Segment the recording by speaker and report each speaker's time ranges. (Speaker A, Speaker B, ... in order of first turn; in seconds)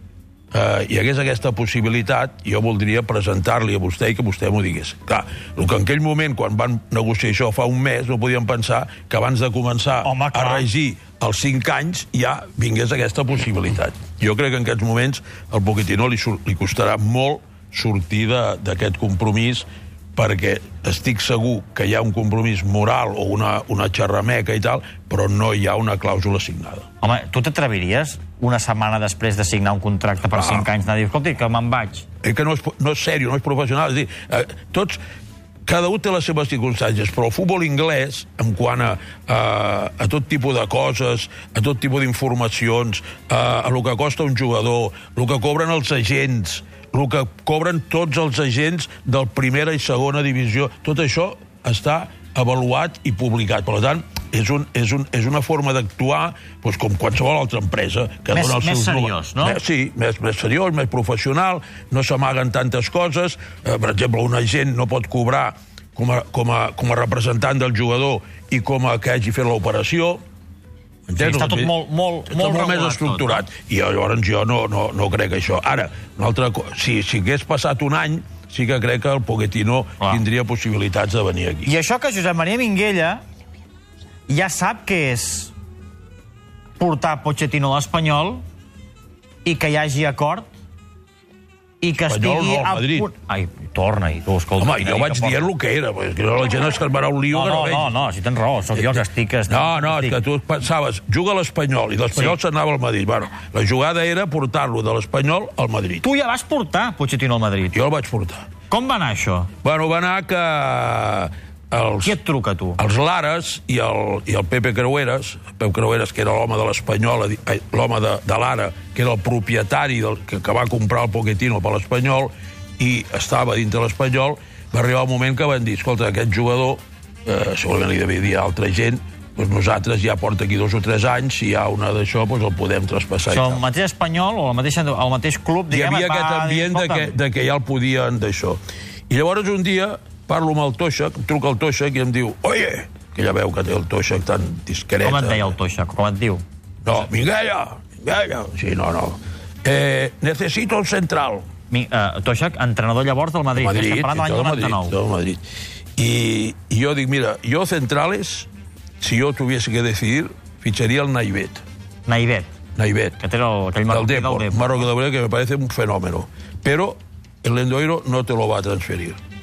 Speaker A: 0.5-26.9, 30.3-30.7, 32.2-35.0, 35.7-70.2, 71.1-71.8, 72.3-81.7, 92.0-93.1, 94.6-97.9, 98.8-106.1, 107.7-108.5, 109.6-112.2, 112.8-133.6, 135.7-145.6, 146.8-151.4, 153.6-155.4, 156.0-158.5, 159.0-161.6, 162.8-163.2, 163.9-169.2
Speaker B: 10.0-10.7, 27.0-32.0, 58.3-59.6, 71.2-73.5, 81.7-83.2, 84.3-85.5, 86.8-88.4, 89.5-90.5, 91.8-95.5, 97.3-100.2, 106.0-107.8, 108.7-109.5, 112.0-112.8, 133.3-137.1, 145.0-146.4, 151.7-154.9, 162.1-162.5, 163.2-164.9